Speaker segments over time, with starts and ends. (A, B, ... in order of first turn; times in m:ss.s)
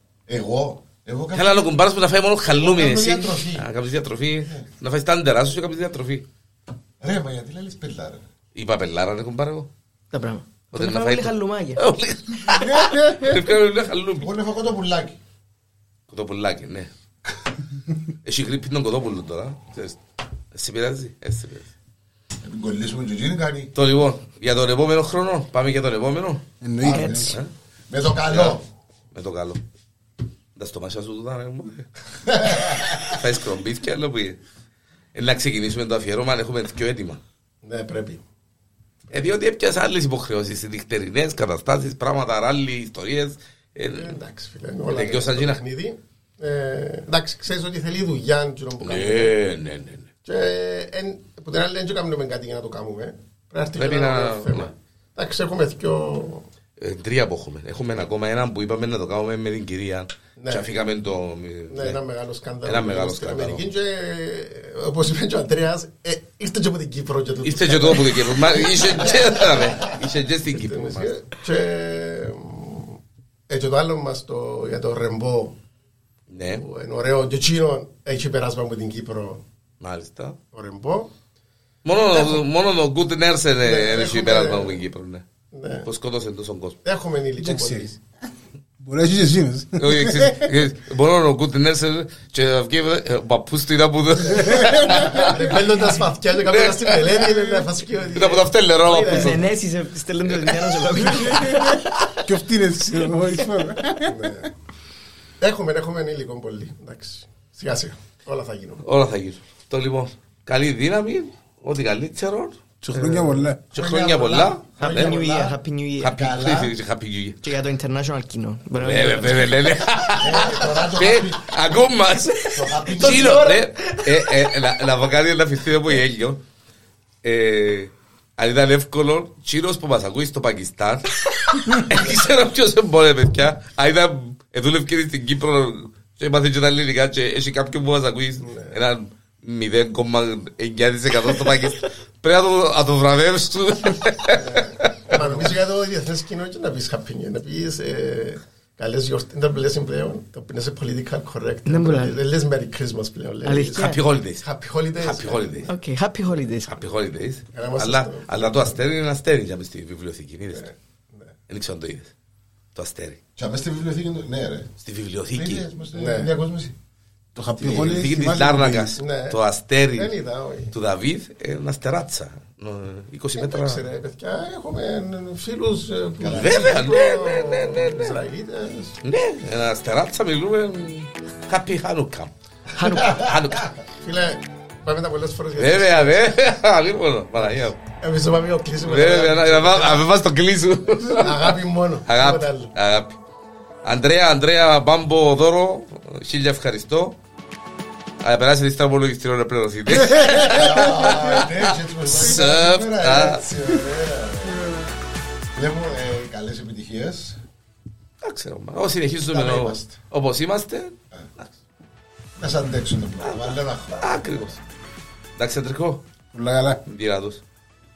0:00.3-0:01.7 A
0:01.3-0:06.3 B
0:02.5-0:03.7 A
0:07.0-0:08.2 A
0:08.6-0:09.7 B
0:10.1-0:11.8 C
0:10.7-0:14.3 B
0:12.5-0:13.3 D
0:14.2-0:15.2 A
0:16.1-0:16.9 B
0:18.2-0:20.0 B
0:20.5-0:21.7 B
0:22.4-0:23.7 A
0:23.8-0:26.4 B
0:26.6-0:27.4 D
0:26.8-0:28.6 A
0:26.8-0:27.3 C
0:28.2-0:28.6 B
0:29.1-0:29.6 B
0:30.6-0:34.4 B
0:32.3-0:33.2 A
0:35.2-0:37.2 B
0:37.6-0:38.2 E
0:39.1-0:44.2 B
0:43.9-0:49.4 E
0:44.9-0:45.6 B
0:48.8-0:50.1 B
0:50.2-0:56.5 E
0:53.8-0:54.7 B
0:56.8-1:02.0 B
1:00.4-1:00.7 E
1:01.7-1:10.0 E
1:02.6-1:03.7 B
1:07.4-1:11.1 B
1:10.5-1:15.6 E
1:16.3-1:16.6 B
1:16.4-1:19.4 E
1:19.8-1:20.4 B
1:20.5-1:21.1 E
1:21.8-1:25.2 B
1:22.1-1:22.4 E
1:23.6-1:24.8 E
1:25.5-1:25.9 E
1:25.8-1:26.8 B
1:26.8-1:28.0 E
1:27.4-1:27.9 D
1:28.8-1:30.5 D
1:29.8-1:39.5 B
1:34.3-1:35.3 D
1:34.9-1:39.4 E
1:38.9-1:42.1 C
1:41.3-1:44.3 D
1:44.0-1:44.5 E
1:45.4-1:48.8 E
1:48.8-1:55.2 B
1:52.9-1:53.6 D
1:53.7-1:55.6 A
1:54.8-1:56.1 C
1:56.0-1:57.4 B
1:56.1-1:56.8 A
1:57.4-1:59.6 C
1:58.8-2:06.4 B
2:00.2-2:01.6 A
2:02.4-2:04.6 C
2:02.5-2:03.6 A
2:07.2-2:25.5 B
2:18.4-2:18.8 E
2:24.3-2:35.7 E
2:31.7-2:32.2 C
2:33.4-2:34.0 C
2:33.8-2:34.5 B
2:35.0-2:35.7 B
2:35.7-2:36.8 C
2:36.7-2:40.7 B
2:37.5-2:38.8 E
2:40.5-2:41.3 E
2:41.5-2:42.1 B
2:42.8-2:43.2 B
2:43.4-2:44.7 A
2:44.8-2:45.6 B
2:45.4-2:46.8 A
2:45.9-2:46.3 E
2:47.4-2:49.0 D
2:47.6-2:50.1 B
2:47.6-2:47.9 A
2:49.0-2:49.4 E
2:49.9-2:50.7 E
2:50.7-2:53.9 B
2:53.4-2:59.0 E
2:56.2-2:57.0 A
2:56.3-2:58.2 B
2:59.0-3:02.3 B
3:02.8-3:03.3 C
3:03.0-3:03.7 B
3:04.0-3:06.4 E
3:05.6-3:07.8 B
3:07.4-3:10.1 E
3:08.8-3:13.2 B
3:11.1-3:12.7 E
3:13.8-3:17.2 B
3:18.2-3:23.4 B
3:20.1-3:20.4 D
3:20.4-3:24.7 A
3:24.5-3:24.9 D
3:25.5-3:27.4 A
3:28.2-3:31.5 B
3:29.3-3:30.0 A
3:32.4-3:34.6 A
3:33.2-3:34.5 B
3:35.4-3:36.1 B
3:36.3-3:36.8 D
3:36.9-3:37.4 B